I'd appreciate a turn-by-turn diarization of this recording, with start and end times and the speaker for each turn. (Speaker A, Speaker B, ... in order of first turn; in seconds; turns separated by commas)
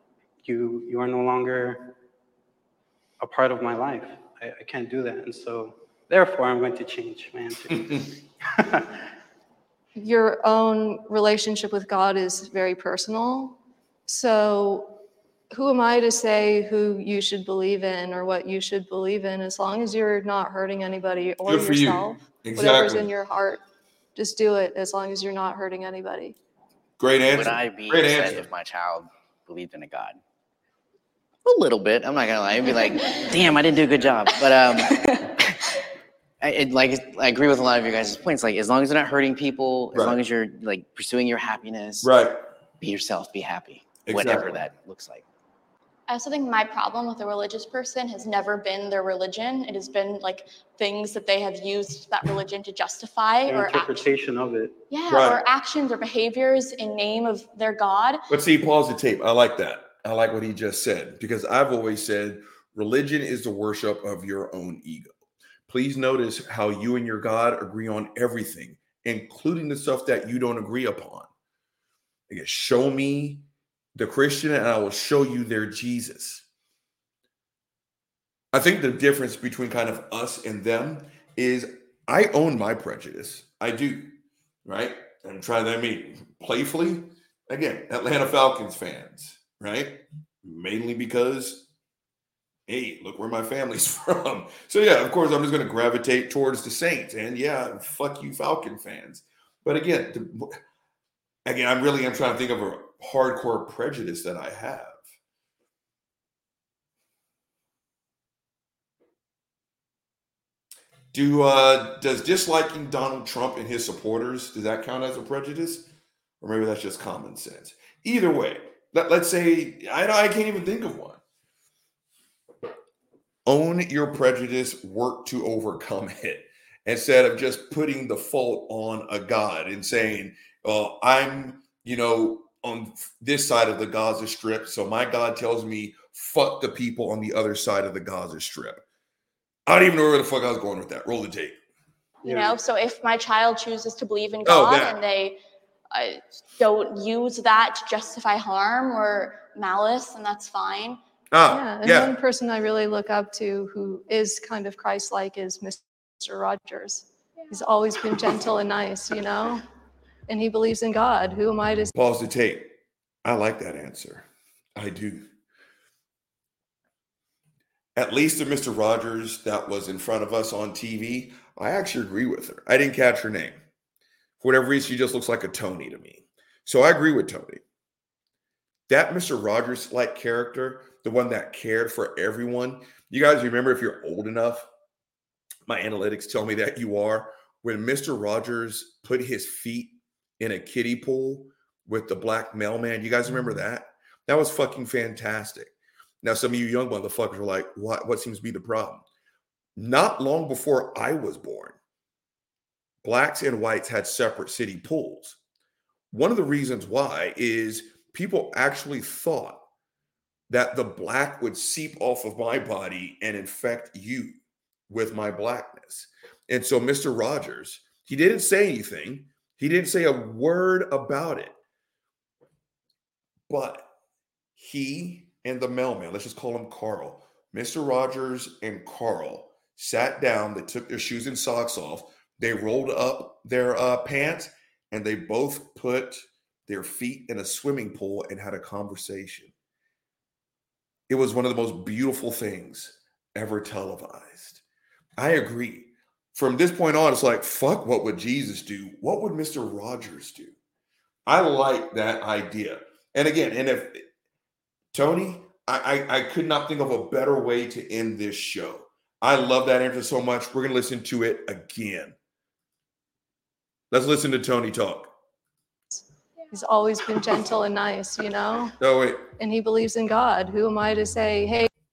Speaker A: 0.4-1.9, Speaker A: 3.2-9.1, Speaker B: 10.0-14.9, Speaker B: 15.5-23.6, Speaker C: 21.4-23.1, Speaker B: 24.2-26.4, Speaker C: 27.0-28.5, Speaker D: 27.3-30.2, Speaker D: 31.4-35.8, Speaker D: 36.4-42.1, Speaker C: 39.9-40.2, Speaker C: 42.0-42.4, Speaker D: 42.8-45.2, Speaker C: 44.0-44.5, Speaker E: 46.1-54.1, Speaker A: 53.5-54.7, Speaker E: 54.9-58.2, Speaker C: 55.1-55.4, Speaker C: 58.3-65.1, Speaker C: 65.7-71.3, Speaker C: 72.3-76.5, Speaker C: 78.5-84.1, Speaker C: 84.7-91.7, Speaker C: 92.7-100.6, Speaker C: 101.5-105.0, Speaker C: 111.1-115.9, Speaker C: 116.4-121.2, Speaker C: 123.5-138.8, Speaker C: 139.7-141.6, Speaker E: 142.2-145.4, Speaker C: 142.2-142.5, Speaker C: 144.4-145.0, Speaker E: 145.9-151.0, Speaker C: 151.3-152.2, Speaker B: 151.5-159.6, Speaker B: 160.3-161.9, Speaker C: 161.9-165.3, Speaker C: 168.0-173.6, Speaker C: 174.4-177.6, Speaker C: 178.9-184.7, Speaker C: 185.7-199.0, Speaker C: 199.8-201.8, Speaker C: 203.0-205.4, Speaker C: 206.1-209.7, Speaker C: 210.5-221.6, Speaker C: 223.5-223.9, Speaker C: 224.6-239.5, Speaker C: 241.1-244.6, Speaker C: 245.2-250.6, Speaker C: 251.3-254.1, Speaker C: 254.9-262.1, Speaker C: 263.9-265.1, Speaker B: 266.5-268.8, Speaker C: 268.8-269.2, Speaker B: 269.4-271.7